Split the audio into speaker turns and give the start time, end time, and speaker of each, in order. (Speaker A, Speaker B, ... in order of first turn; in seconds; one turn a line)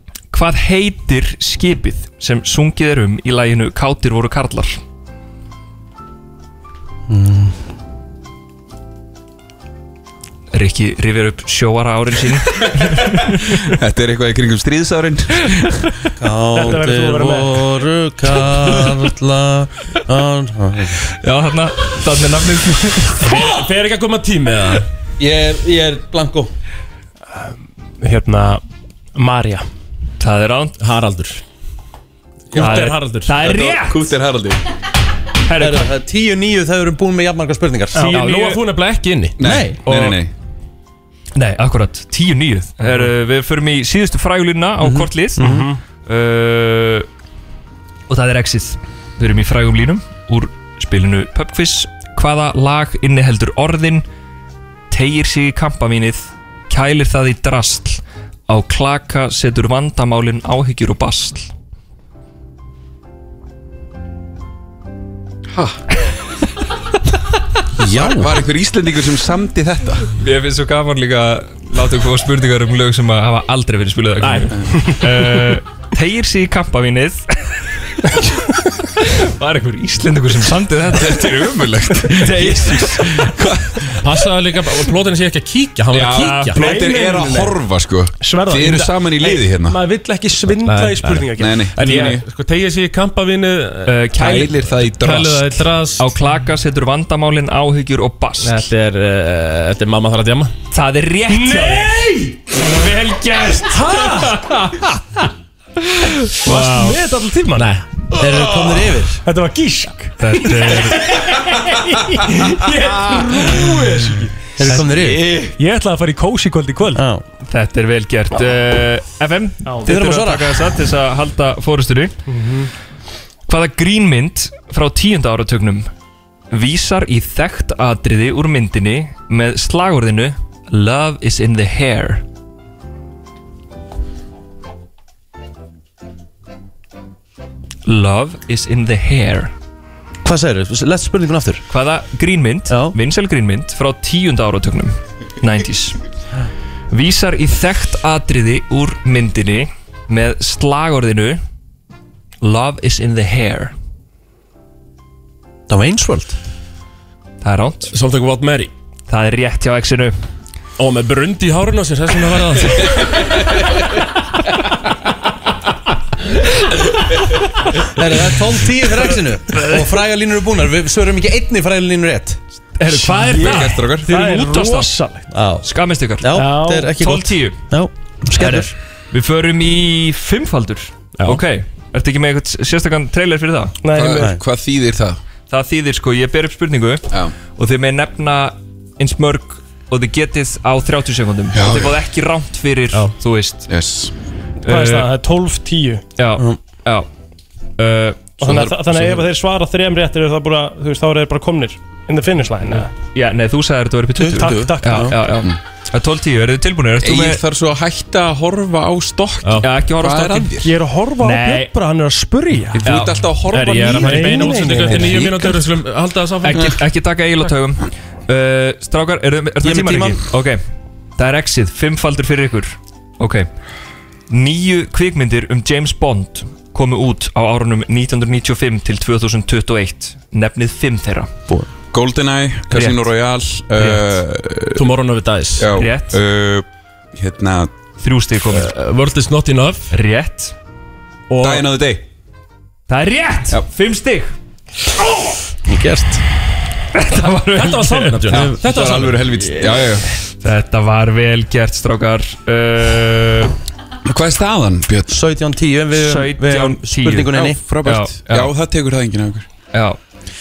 Speaker A: 0.3-4.8
Speaker B: 7.1-7.6
Speaker A: 10.5-13.6
Speaker C: 13.7-16.1
Speaker B: 16.2-21.0
Speaker D: 16.5-17.8
Speaker A: 21.2-23.4
Speaker E: 23.2-24.9
Speaker B: 25.2-26.5
Speaker D: 28.0-28.6
Speaker D: 29.1-29.6
Speaker A: 30.2-30.8
Speaker E: 30.8-31.4
Speaker C: 32.5-34.6
Speaker E: 32.5-33.4
Speaker A: 32.6-34.1
Speaker A: 35.5-35.9
Speaker B: 35.6-38.1
Speaker D: 37.9-38.3
Speaker E: 38.0-39.4
Speaker A: 38.1-38.6
Speaker C: 39.4-40.3
Speaker B: 39.4-39.8
Speaker E: 39.9-40.2
Speaker A: 41.4-47.1
Speaker B: 44.8-45.7
Speaker D: 45.4-45.8
Speaker A: 48.1-54.0
Speaker A: 54.9-61.5
Speaker C: 65.5-65.8
Speaker B: 67.8-68.3
Speaker C: 67.8-70.1
Speaker A: 70.2-78.1
Speaker E: 74.2-74.5
Speaker A: 79.0-81.4
Speaker C: 80.9-84.2
Speaker A: 82.2-83.2
Speaker E: 84.0-86.7
Speaker C: 85.9-89.8
Speaker A: 86.2-86.9
Speaker D: 86.5-87.6
Speaker D: 88.2-92.2
Speaker E: 90.6-94.0
Speaker C: 91.3-92.2
Speaker A: 93.9-94.6
Speaker C: 94.1-95.6
Speaker E: 94.9-96.2
Speaker A: 96.0-98.7
Speaker E: 98.4-100.5
Speaker A: 100.7-102.0
Speaker D: 101.3-104.9
Speaker A: 103.4-104.9
Speaker A: 106.0-107.0
Speaker D: 106.3-107.8
Speaker E: 107.5-107.8
Speaker C: 108.2-108.9
Speaker B: 108.2-109.2
Speaker D: 109.2-114.9
Speaker A: 110.2-111.1
Speaker C: 112.5-114.2
Speaker B: 114.6-115.2
Speaker C: 114.9-115.6
Speaker D: 115.6-117.0
Speaker B: 117.0-117.2
Speaker A: 117.5-122.1
Speaker D: 119.7-119.9
Speaker B: 119.8-120.7
Speaker D: 122.3-122.7
Speaker A: 123.5-125.9
Speaker A: 126.5-132.2
Speaker A: 137.8-139.5
Speaker B: 140.2-141.7
Speaker A: 141.7-146.0
Speaker B: 142.7-143.0
Speaker A: 146.9-151.4
Speaker A: 152.4-153.7
Speaker B: 155.7-156.4
Speaker A: 157.4-157.9
Speaker E: 157.9-158.7
Speaker A: 159.1-160.2
Speaker E: 160.8-162.9
Speaker B: 167.9-172.4
Speaker A: 172.8-174.9
Speaker D: 172.9-175.3
Speaker C: 173.2-174.2
Speaker B: 175.3-175.7
Speaker A: 175.7-176.4
Speaker B: 176.2-178.7
Speaker D: 176.3-176.9
Speaker A: 176.9-177.6
Speaker A: 178.4-183.8
Speaker E: 181.2-181.4
Speaker D: 183.8-184.3
Speaker C: 183.9-185.2
Speaker A: 185.5-193.7
Speaker C: 191.5-192.0
Speaker C: 193.7-194.1
Speaker A: 194.6-195.1
Speaker D: 194.7-196.0
Speaker A: 196.2-197.1
Speaker A: 197.8-198.5
Speaker D: 198.4-202.9
Speaker C: 198.4-199.2
Speaker A: 202.8-207.4
Speaker B: 204.2-205.3
Speaker D: 204.4-205.2
Speaker C: 207.0-210.7
Speaker A: 209.6-210.6
Speaker D: 210.6-212.9
Speaker A: 211.2-211.7
Speaker C: 212.7-214.4
Speaker A: 212.8-213.2
Speaker E: 213.5-216.8
Speaker D: 213.8-215.2
Speaker B: 214.7-215.6
Speaker A: 216.4-220.6
Speaker B: 219.6-220.2
Speaker A: 221.2-223.5
Speaker A: 224.3-231.3
Speaker C: 231.9-234.9
Speaker A: 232.7-233.1
Speaker E: 234.8-235.7
Speaker C: 235.6-237.8
Speaker A: 235.8-236.2
Speaker A: 238.0-238.7
Speaker E: 238.5-239.9
Speaker A: 239.9-240.6
Speaker E: 241.3-241.7
Speaker C: 241.4-242.1
Speaker A: 242.9-244.3
Speaker B: 245.7-246.2
Speaker A: 246.9-248.4
Speaker E: 247.5-249.8
Speaker C: 248.3-250.1
Speaker A: 250.4-253.5
Speaker C: 254.1-255.2
Speaker B: 255.1-257.6
Speaker A: 255.9-258.5
Speaker C: 257.3-259.5
Speaker A: 259.7-260.0